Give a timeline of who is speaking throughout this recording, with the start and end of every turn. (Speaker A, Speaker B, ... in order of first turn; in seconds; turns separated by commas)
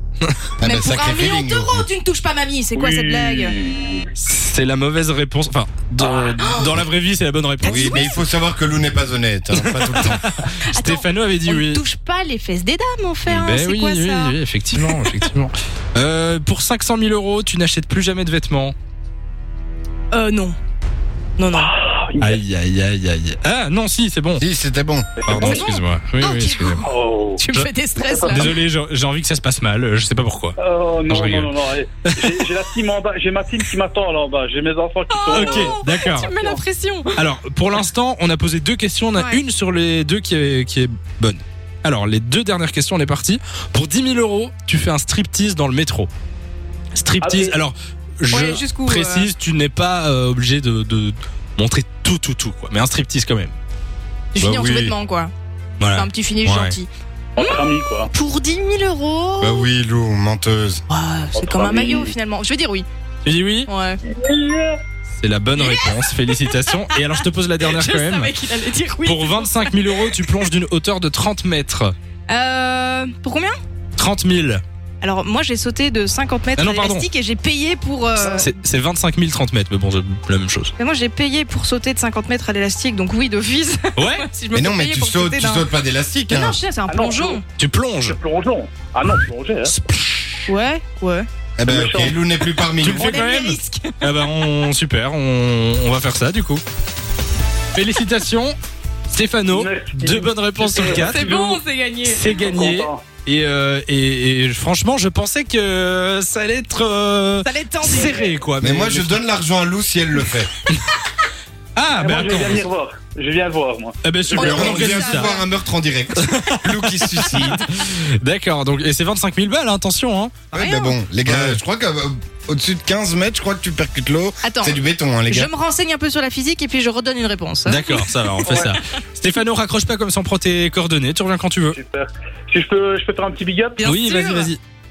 Speaker A: 0.6-1.9, Speaker B: 0.6-3.6, Speaker C: 2.8-4.1, Speaker D: 4.2-8.1, Speaker B: 6.4-6.8, Speaker B: 7.6-8.2, Speaker A: 7.6-10.3, Speaker D: 9.6-11.8, Speaker B: 10.7-15.2, Speaker D: 13.3-18.8, Speaker B: 20.1-20.6, Speaker B: 21.4-21.7, Speaker C: 21.5-22.4, Speaker D: 22.2-24.4, Speaker A: 24.4-25.6, Speaker C: 25.2-25.6, Speaker D: 25.3-26.9, Speaker B: 25.4-28.5, Speaker C: 26.9-27.4, Speaker C: 28.0-28.4, Speaker D: 28.2-30.6, Speaker C: 30.6-36.6, Speaker D: 31.1-32.3, Speaker B: 35.1-37.2, Speaker D: 35.3-36.3, Speaker D: 37.1-46.1, Speaker D: 46.9-53.5, Speaker C: 47.2-47.6, Speaker B: 48.3-49.3, Speaker B: 54.3-55.3, Speaker A: 54.4-55.0, Speaker D: 55.8-56.8, Speaker B: 55.9-59.7, Speaker C: 57.4-58.1, Speaker A: 59.4-60.8, Speaker B: 60.9-62.9, Speaker C: 61.4-62.1, Speaker D: 63.2-63.7, Speaker B: 63.7-64.0, Speaker C: 64.0-64.8, Speaker D: 65.2-68.3, Speaker B: 65.6-70.4, Speaker D: 69.0-71.9, Speaker B: 72.3-73.6, Speaker D: 74.0-74.6, Speaker B: 75.0-78.5, Speaker D: 76.6-77.1, Speaker D: 78.2-80.7, Speaker B: 80.8-85.7, Speaker D: 84.0-84.3, Speaker A: 84.5-86.6, Speaker B: 86.3-87.5, Speaker C: 86.9-87.4, Speaker D: 87.6-88.2, Speaker C: 88.0-89.7, Speaker D: 89.6-90.5, Speaker B: 90.5-91.3, Speaker A: 91.6-93.2, Speaker C: 91.7-92.2, Speaker D: 92.8-96.6, Speaker B: 92.8-94.3, Speaker D: 97.8-98.6, Speaker D: 99.1-109.2, Speaker C: 99.5-101.1, Speaker B: 100.8-102.2, Speaker C: 102.4-103.0, Speaker B: 107.4-108.3, Speaker A: 108.6-110.5, Speaker D: 111.8-112.7, Speaker C: 112.0-114.6, Speaker D: 114.0-115.3, Speaker B: 114.4-115.5, Speaker A: 114.4-117.7, Speaker D: 116.2-120.5, Speaker B: 120.5-121.0, Speaker A: 120.5-125.5, Speaker D: 121.3-121.6, Speaker B: 124.4-128.3, Speaker D: 127.7-131.8, Speaker C: 128.4-128.7, Speaker C: 131.7-133.8, Speaker B: 133.8-134.5, Speaker D: 133.8-134.6